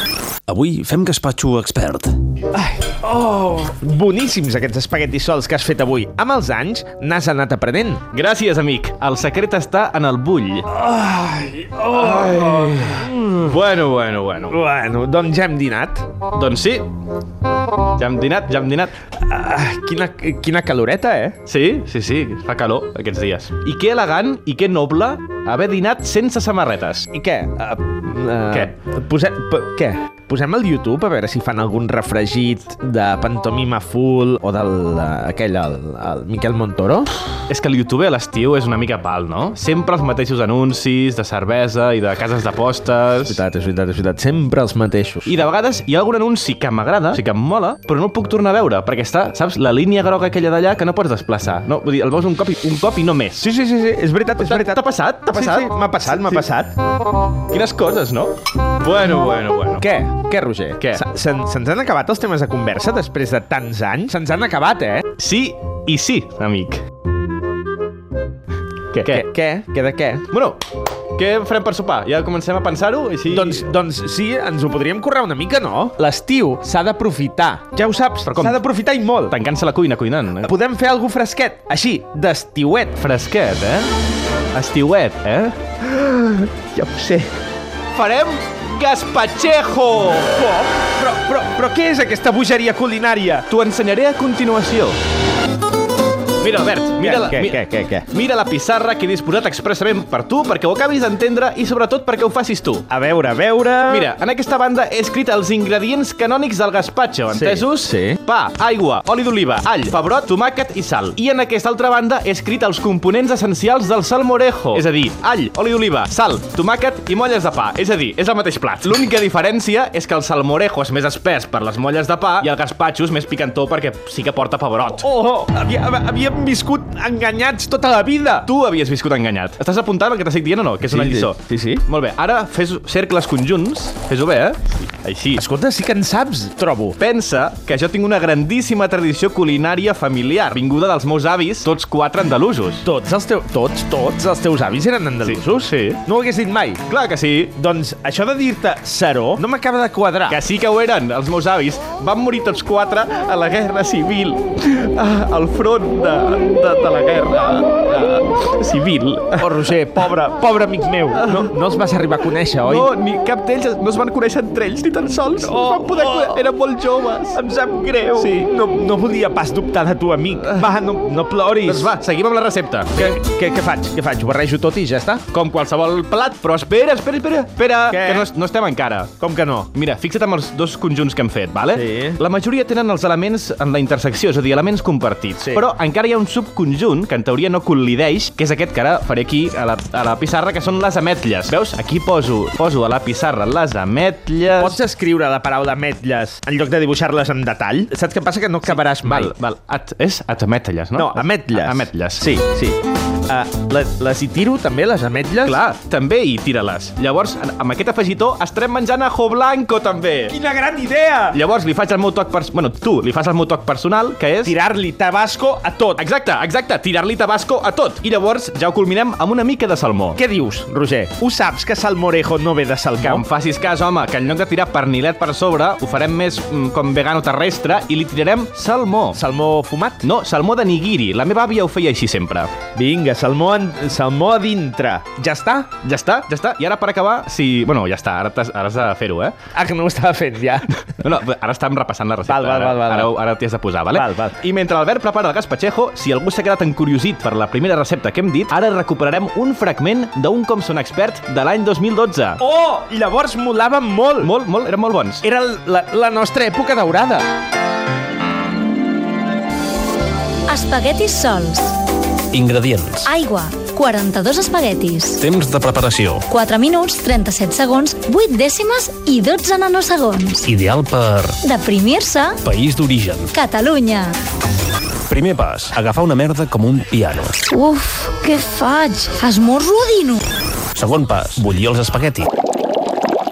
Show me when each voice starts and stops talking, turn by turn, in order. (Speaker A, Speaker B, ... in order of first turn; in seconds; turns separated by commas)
Speaker A: 0.5-2.1, Speaker B: 2.5-8.0, Speaker C: 8.1-10.7, Speaker B: 10.7-13.1, Speaker C: 11.9-14.6, Speaker B: 14.5-16.1, Speaker C: 16.3-16.9, Speaker C: 17.9-18.9, Speaker B: 19.2-21.4, Speaker C: 21.4-27.1, Speaker B: 27.1-37.2, Speaker C: 37.5-43.4, Speaker B: 43.3-45.3, Speaker C: 45.2-53.5, Speaker B: 53.4-56.7, Speaker C: 54.4-56.5, Speaker C: 57.5-59.9, Speaker B: 59.8-65.0, Speaker C: 60.8-61.0, Speaker C: 65.2-66.8, Speaker C: 68.9-69.3, Speaker B: 69.0-70.2, Speaker C: 70.3-70.6, Speaker C: 71.1-73.6, Speaker B: 73.3-79.3, Speaker C: 78.2-78.6, Speaker C: 79.3-80.5, Speaker B: 80.4-83.0, Speaker C: 83.0-83.9, Speaker C: 84.5-86.2, Speaker C: 86.8-87.2, Speaker C: 87.9-90.3, Speaker B: 90.3-93.5, Speaker C: 93.5-95.0, Speaker C: 96.4-102.9, Speaker B: 97.0-98.1, Speaker B: 102.9-104.1, Speaker C: 103.9-125.1, Speaker B: 107.3-108.2, Speaker B: 125.0-128.5, Speaker C: 128.4-135.4, Speaker B: 130.8-131.8, Speaker B: 135.4-137.0, Speaker C: 137.0-142.8, Speaker B: 142.8-146.8, Speaker C: 145.2-146.0, Speaker C: 146.9-147.5, Speaker B: 147.6-150.4, Speaker C: 150.3-159.7, Speaker B: 159.4-162.9, Speaker C: 161.1-161.5, Speaker C: 162.6-167.4, Speaker B: 165.4-166.4, Speaker B: 167.3-171.9, Speaker C: 168.2-168.5, Speaker C: 171.6-173.2, Speaker B: 172.9-175.2, Speaker C: 175.3-179.1, Speaker B: 177.9-178.3, Speaker B: 179.2-179.7, Speaker C: 179.7-194.8, Speaker B: 181.7-182.2, Speaker B: 194.6-199.3, Speaker C: 198.7-202.3, Speaker B: 200.9-205.6, Speaker C: 205.4-210.3, Speaker B: 210.3-211.4, Speaker C: 211.3-214.6, Speaker B: 214.4-216.0, Speaker C: 215.9-220.2, Speaker B: 220.2-223.2, Speaker C: 223.0-229.2, Speaker B: 229.1-230.1, Speaker C: 230.0-232.5, Speaker B: 232.8-235.7, Speaker C: 235.8-239.4, Speaker B: 239.5-240.7, Speaker C: 241.0-252.4, Speaker B: 242.2-243.1, Speaker B: 243.9-244.4, Speaker B: 252.4-254.3, Speaker C: 254.2-255.2, Speaker B: 255.2-257.2, Speaker D: 260.5-261.8, Speaker A: 262.3-263.1, Speaker D: 263.1-265.2, Speaker A: 265.2-266.3, Speaker D: 266.3-270.5, Speaker A: 270.4-271.4, Speaker D: 271.4-272.4, Speaker A: 272.4-273.3, Speaker D: 273.3-274.1, Speaker A: 275.1-277.4, Speaker D: 277.5-280.2, Speaker A: 280.8-282.3